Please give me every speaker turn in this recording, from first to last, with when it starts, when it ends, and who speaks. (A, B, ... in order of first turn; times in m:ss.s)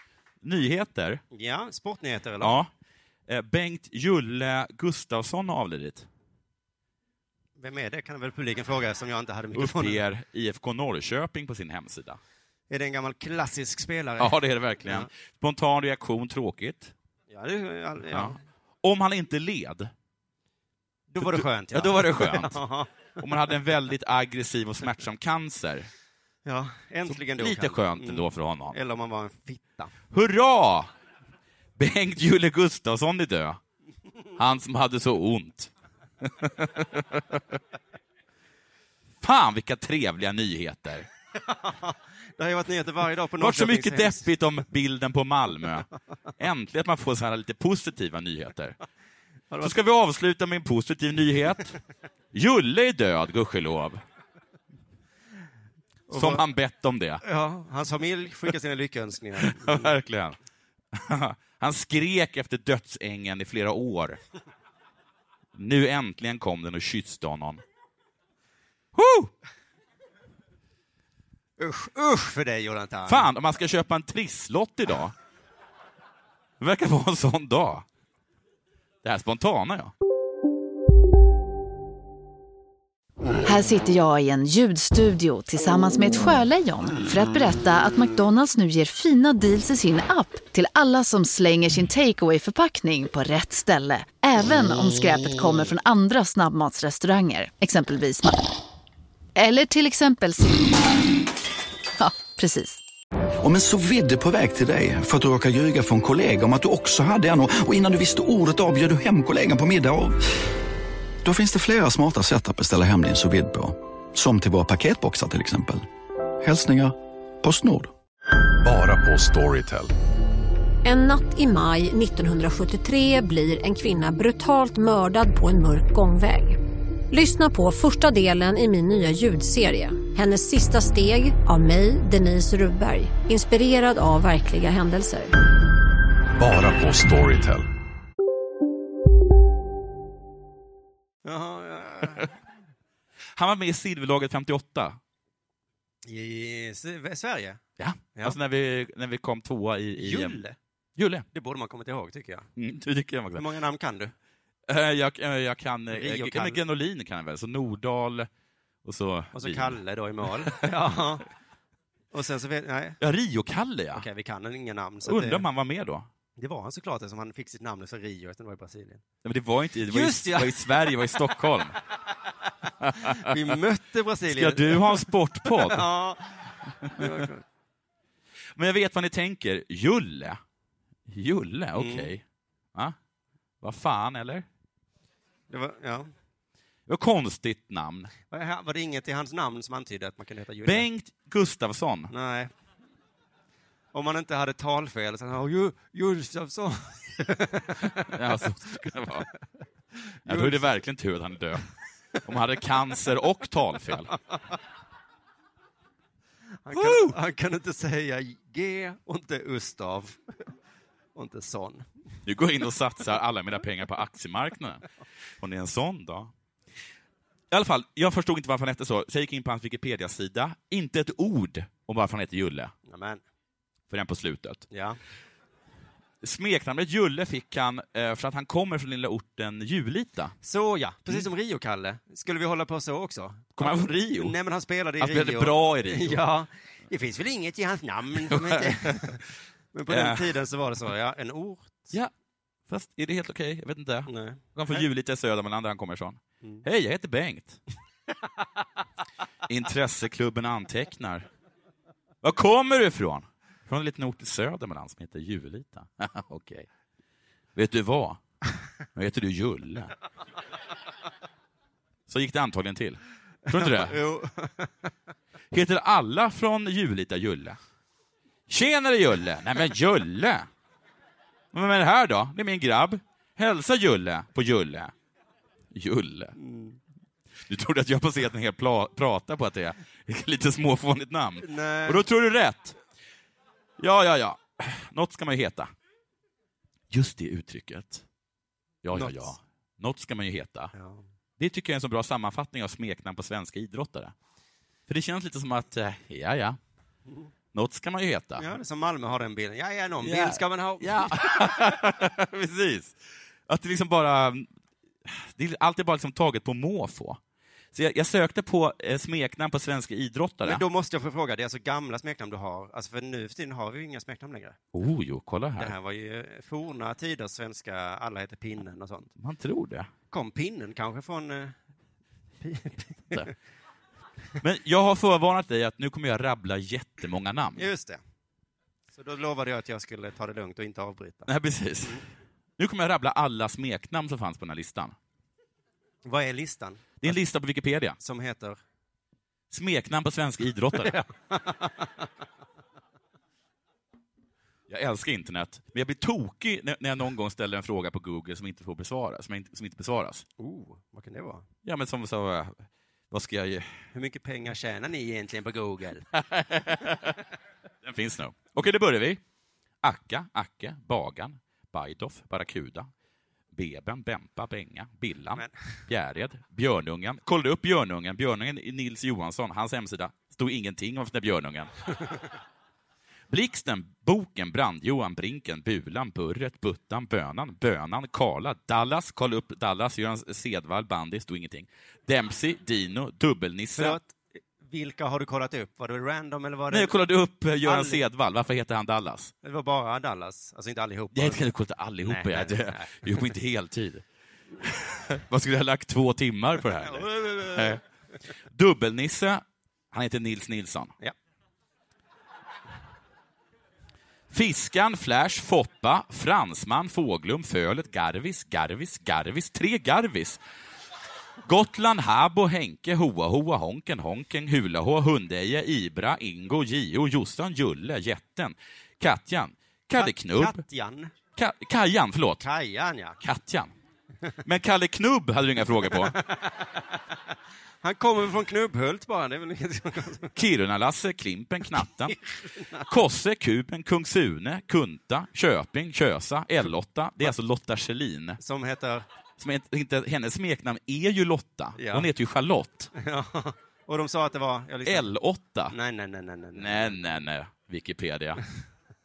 0:00.4-0:01.2 A
0:01.3-0:02.6 B
0:02.4-0:02.7 A
0:03.3-0:06.1 A
0:07.6-0:10.0 B
0:09.5-0:12.2 A
0:12.7-0:15.1 B
0:14.2-0:16.9 A
0:17.3-0:18.4 B
0:18.1-0:19.9 A
0:21.1-0:22.9 B
0:21.2-0:22.6 A
0:23.2-0:25.9 A
0:26.4-0:29.9 B
0:27.1-0:28.8 A
0:30.1-0:30.9 A
0:31.8-0:33.6 A
0:34.4-0:35.7 A
0:36.2-0:37.6 A
0:39.2-0:41.1 A
0:41.4-0:44.3 B
0:43.4-0:45.9 A
0:46.4-0:48.8 A
0:49.5-0:49.8 B
0:49.6-0:51.7 A
0:52.3-0:54.0 A
0:56.1-0:56.4 B
0:56.1-0:57.2 A
0:57.2-0:59.9 B
0:59.4-1:00.4 A
1:00.9-1:04.2 A
1:05.5-1:07.6 A
1:08.9-1:09.3 A
1:11.6-1:13.3 B
1:13.1-1:15.1 A
1:16.6-1:17.8 A
1:19.0-1:19.9 A
1:23.4-1:38.4 C
1:39.4-1:40.8 C
1:42.0-1:42.8 C
1:43.4-1:50.2 D
1:51.2-1:55.8 D
1:56.4-1:57.9 D
1:58.6-1:59.9 E
2:00.8-2:06.6 F
2:07.1-2:15.3 F
2:16.4-2:17.6 E
2:21.2-2:22.3 B
2:23.4-2:25.0 A
2:26.0-2:27.6 B
2:27.8-2:30.4 A
2:30.0-2:30.6 B
2:31.0-2:31.2 A
2:31.3-2:32.5 B
2:32.6-2:33.4 A
2:33.3-2:34.1 B
2:34.7-2:38.3 A
2:35.9-2:36.6 B
2:38.8-2:39.8 A
2:39.3-2:41.3 B
2:42.1-2:43.0 B
2:43.0-2:44.0 A
2:43.9-2:45.4 B
2:45.0-2:46.1 A
2:46.4-2:49.0 B
2:49.2-2:51.8 A
2:49.9-2:50.6 B
2:52.8-2:53.3 A
2:53.0-2:57.4 B
2:54.3-2:55.8 A
2:58.6-3:00.4 A
3:01.1-3:02.2 A
3:01.8-3:02.1 B
3:03.6-3:04.4 A
3:05.5-3:06.1 B
3:06.9-3:08.1 A
3:08.3-3:10.8 B
3:10.6-3:12.1 A
3:12.1-3:12.5 B
3:13.9-3:18.1 B
3:18.1-3:19.3 A
3:20.2-3:20.7 B
3:20.2-3:21.6 A
3:22.2-3:24.1 A
3:26.6-3:30.2 B
3:26.7-3:27.2 A
3:31.1-3:31.8 B
3:32.2-3:34.8 A
3:35.4-3:36.3 A
3:37.5-3:42.7 A
3:42.9-3:43.2 B
3:43.9-3:44.6 A
3:44.7-3:45.0 B
3:46.2-3:50.4 A
3:50.4-4:01.9 B
3:53.6-3:54.3 A
3:55.0-3:56.2 A
3:58.3-3:59.2 A
3:59.9-4:00.3 A
4:02.7-4:07.6 A
4:04.1-4:04.8 B
4:09.5-4:11.3 A
4:12.2-4:16.7 A
4:17.5-4:18.2 A
4:18.9-4:19.9 A
4:22.1-4:24.0 A
4:23.4-4:24.9 B
4:25.5-4:27.6 A
4:28.5-4:30.5 A
4:31.5-4:34.9 A
4:35.7-4:36.3 A
4:36.4-4:36.8 B
4:37.5-4:42.8 A
4:41.4-4:42.0 B
4:43.8-4:45.7 A
4:46.9-4:48.0 A
4:48.8-4:50.7 A
4:48.9-4:49.3 B
4:50.7-4:51.0 B
4:51.4-4:54.1 A
4:54.9-4:56.6 A
4:57.5-4:58.5 A
4:58.4-5:01.8 B
5:00.0-5:03.0 A
5:03.5-5:04.5 A
5:05.0-5:07.2 A
5:07.7-5:10.6 A
5:10.4-5:14.6 B
5:14.7-5:15.7 A
5:15.6-5:19.1 B
5:19.2-5:19.9 A
5:20.1-5:21.5 B
5:22.4-5:23.3 B
5:24.4-5:27.7 A
5:27.6-5:28.0 B
5:28.9-5:31.3 B
5:31.3-5:32.0 A
5:32.6-5:34.9 A
5:36.0-5:37.2 B
5:37.0-5:38.0 A
5:38.0-5:38.6 B
5:39.5-5:41.0 A
5:40.8-5:42.0 B
5:44.7-5:50.2 A
5:50.4-5:51.4 B
5:51.6-5:53.8 A
5:53.9-5:56.1 B
5:56.1-5:57.2 A
5:57.8-5:59.2 A
5:59.8-6:02.9 A
6:03.5-6:11.7 A
6:13.3-6:24.0 A
6:23.8-6:26.9 B
6:26.7-6:29.3 A
6:27.6-6:28.0 B
6:29.4-6:31.4 B
6:31.1-6:34.0 A
6:32.0-6:33.2 B
6:34.6-6:37.8 A
6:36.6-6:37.8 B
6:38.5-6:40.9 A
6:44.3-6:50.4 A
6:51.4-7:00.6 A
7:00.0-7:01.1 B
7:01.4-7:02.4 A
7:02.4-7:03.2 B
7:03.2-7:03.7 A
7:04.4-7:06.1 A
7:06.0-7:06.8 B
7:07.8-7:10.3 B
7:10.3-7:12.1 A
7:12.0-7:12.9 B
7:12.8-7:18.4 A
7:18.4-7:19.0 B
7:19.4-7:22.9 A
7:21.8-7:22.1 B
7:23.0-7:25.1 B
7:24.8-7:25.7 A
7:25.7-7:27.0 B
7:26.6-7:28.4 A